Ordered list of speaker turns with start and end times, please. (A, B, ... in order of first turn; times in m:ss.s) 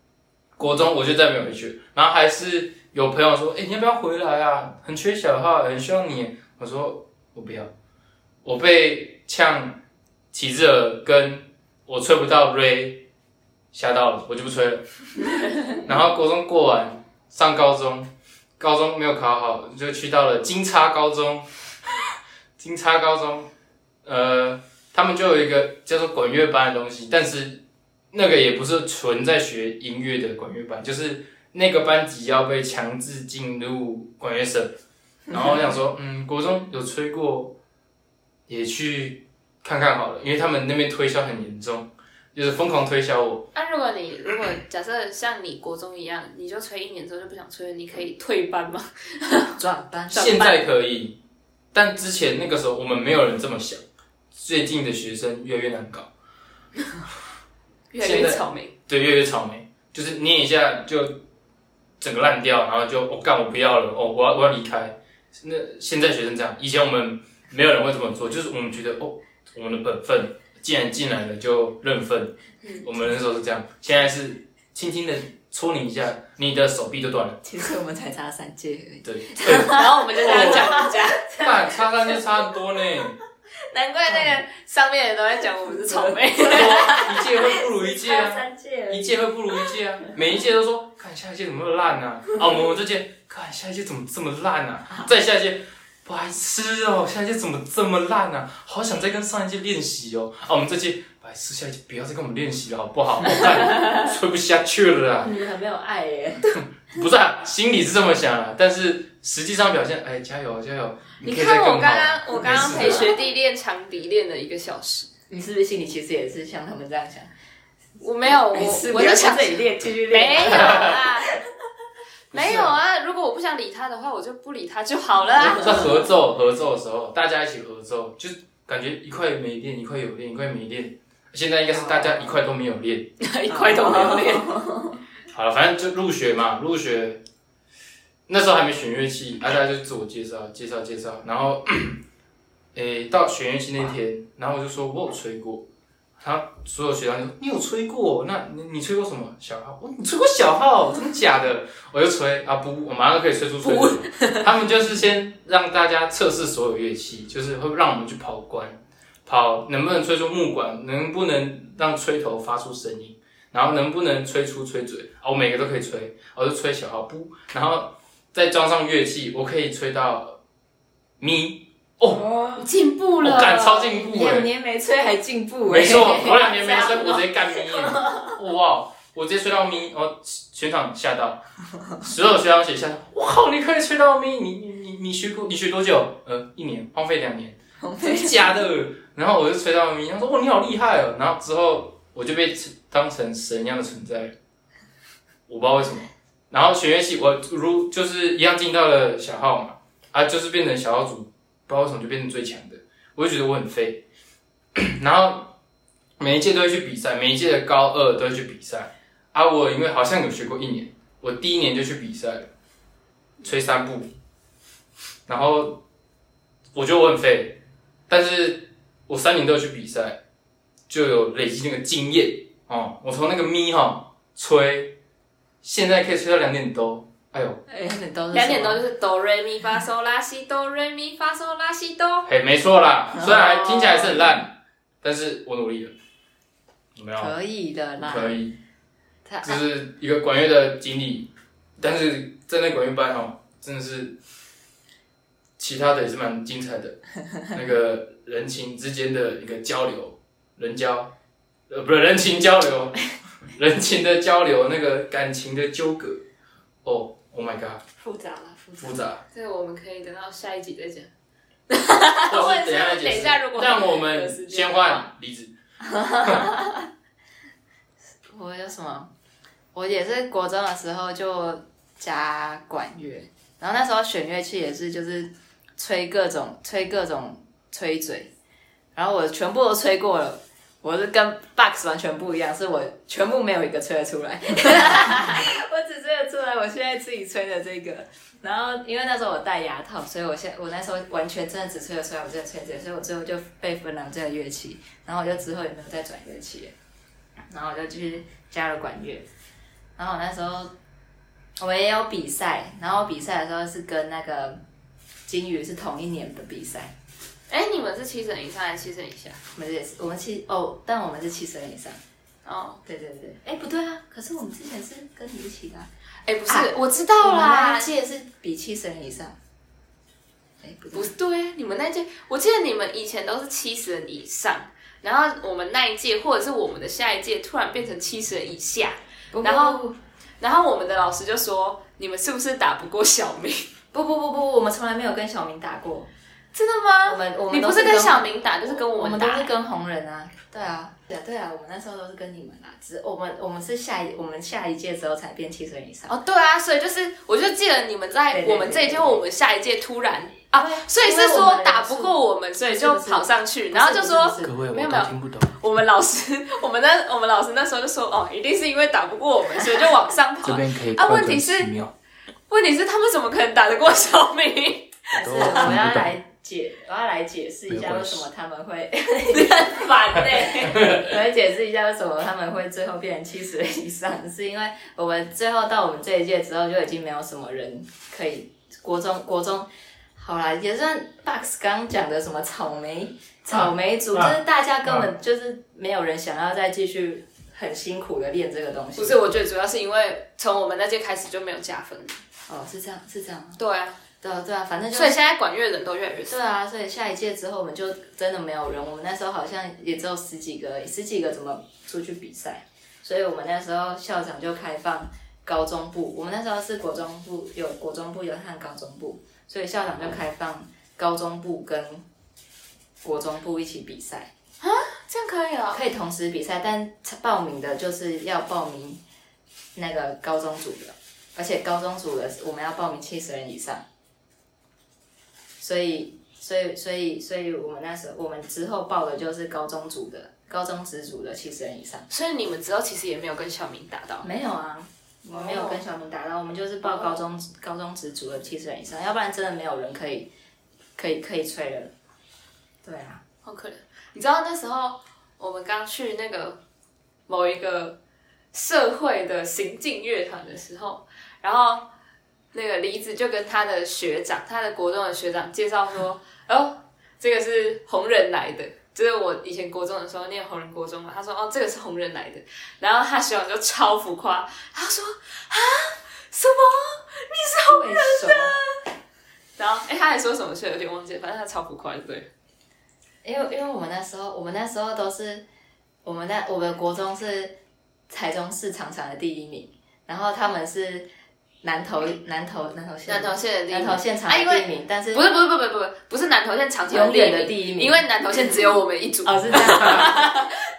0:00.6-0:07.7 A
0:08.4-0:09.8 A
0:10.3-0:13.1 A
0:13.7-0:14.9 A
0:15.7-0:21.5 A
0:22.6-0:23.5 A
0:24.0-0:34.8 A
0:35.3-0:37.6 A
0:38.5-0:43.5 A
0:43.6-0:49.6 B
0:49.6-0:50.6 C
0:50.1-0:51.2 A
0:51.7-0:53.8 A
0:54.4-0:56.1 A
0:57.9-0:58.7 B
0:58.0-1:01.2 A
1:02.0-1:17.4 A
1:17.4-1:22.2 C
1:19.0-1:20.8 A
1:19.5-1:21.3 B
1:21.4-1:23.2 A
1:23.7-1:27.0 B
1:24.1-1:24.4 C
1:25.7-1:29.7 C
1:26.4-1:45.4 A
1:45.2-1:46.4 C
1:46.8-1:53.1 A
1:51.2-1:55.1 B
1:52.7-1:53.1 C
1:55.3-1:57.3 C
1:58.0-2:01.4 B
1:58.5-2:01.4 C
2:00.5-2:01.0 A
2:02.3-2:02.8 A
2:02.3-2:05.9 B
2:05.4-2:13.1 A
2:11.8-2:12.3 C
2:13.2-2:14.6 B
2:13.5-2:15.0 C
2:15.3-2:17.2 A
2:18.3-2:22.0 A
2:22.8-2:25.7 A
2:26.2-2:50.4 A
2:33.6-2:34.4 B
2:51.2-2:52.3 A
2:52.1-2:52.7 C
2:52.6-2:53.9 B
2:53.2-2:54.5 A
2:53.9-2:58.3 C
2:55.7-3:01.4 A
3:02.0-3:14.4 A
3:07.8-3:08.6 C
3:15.5-3:24.0 A
3:24.8-3:25.5 A
3:26.2-3:32.5 A
3:33.4-3:34.1 A
3:35.3-3:35.8 A
3:36.7-3:40.2 A
3:40.9-3:45.0 A
3:45.6-3:47.6 A
3:47.7-3:48.8 C
3:48.3-3:52.3 B
3:52.3-3:55.9 A
3:53.2-3:54.2 C
3:57.0-3:57.3 A
3:57.2-3:58.4 C
3:58.0-3:58.6 A
3:59.2-3:59.6 C
3:59.4-4:04.2 A
4:05.6-4:11.1 A
4:11.7-4:16.2 A
4:16.8-4:17.8 A
4:18.0-4:18.8 C
4:18.8-4:19.2 A
4:19.3-4:21.1 B
4:21.7-4:25.1 B
4:22.3-4:25.5 A
4:25.8-4:26.9 C
4:28.3-4:29.1 C
4:29.7-4:38.3 C
4:39.0-4:56.7 C
4:57.5-4:59.3 C
5:00.0-5:00.7 C
5:01.6-5:04.6 C
5:05.3-5:06.9 C
5:07.5-5:09.4 B
5:09.6-5:12.0 C
5:12.4-5:12.8 B
5:12.8-5:15.9 C
5:16.3-5:17.9 B
5:16.5-5:19.4 C
5:20.6-5:21.1 C
5:20.9-5:29.8 B
5:29.3-5:30.0 C
5:30.4-5:33.7 B
5:33.9-5:36.1 C
5:36.5-5:39.5 B
5:37.0-5:46.2 C
5:46.1-6:01.7 B
5:48.3-5:49.2 C
5:50.5-5:54.6 C
5:54.4-5:55.5 A
6:00.4-6:01.9 A
6:02.5-6:05.8 B
6:05.1-6:06.1 A
6:05.1-6:29.2 C
6:07.7-6:08.2 A
6:09.3-6:10.8 B
6:10.7-6:11.1 A
6:23.5-6:25.1 A
6:29.0-6:32.2 B
6:32.5-6:33.6 C
6:33.6-6:34.0 B
6:34.2-6:35.2 C
6:34.9-6:36.4 B
6:36.3-6:52.0 C
6:53.0-6:54.3 C
6:54.6-6:55.8 B
6:55.7-6:59.0 C
6:59.8-7:03.8 C
7:05.6-7:12.1 C
7:12.1-7:14.3 B
7:14.2-7:20.3 C
7:15.3-7:15.8 B
7:16.8-7:17.2 B
7:21.0-7:21.9 C
7:22.8-7:23.2 C
7:23.4-7:26.6 B
7:27.3-7:28.0 B
7:28.5-7:31.9 B
7:32.5-7:48.8 B
7:47.7-7:48.6 C
7:49.6-7:52.3 B
7:53.2-7:55.4 C
7:56.0-7:57.6 C
7:58.1-8:01.1 C
8:01.6-8:05.3 C
8:03.1-8:10.7 B
8:06.9-8:08.0 C
8:09.2-8:10.4 C
8:09.7-8:09.9 A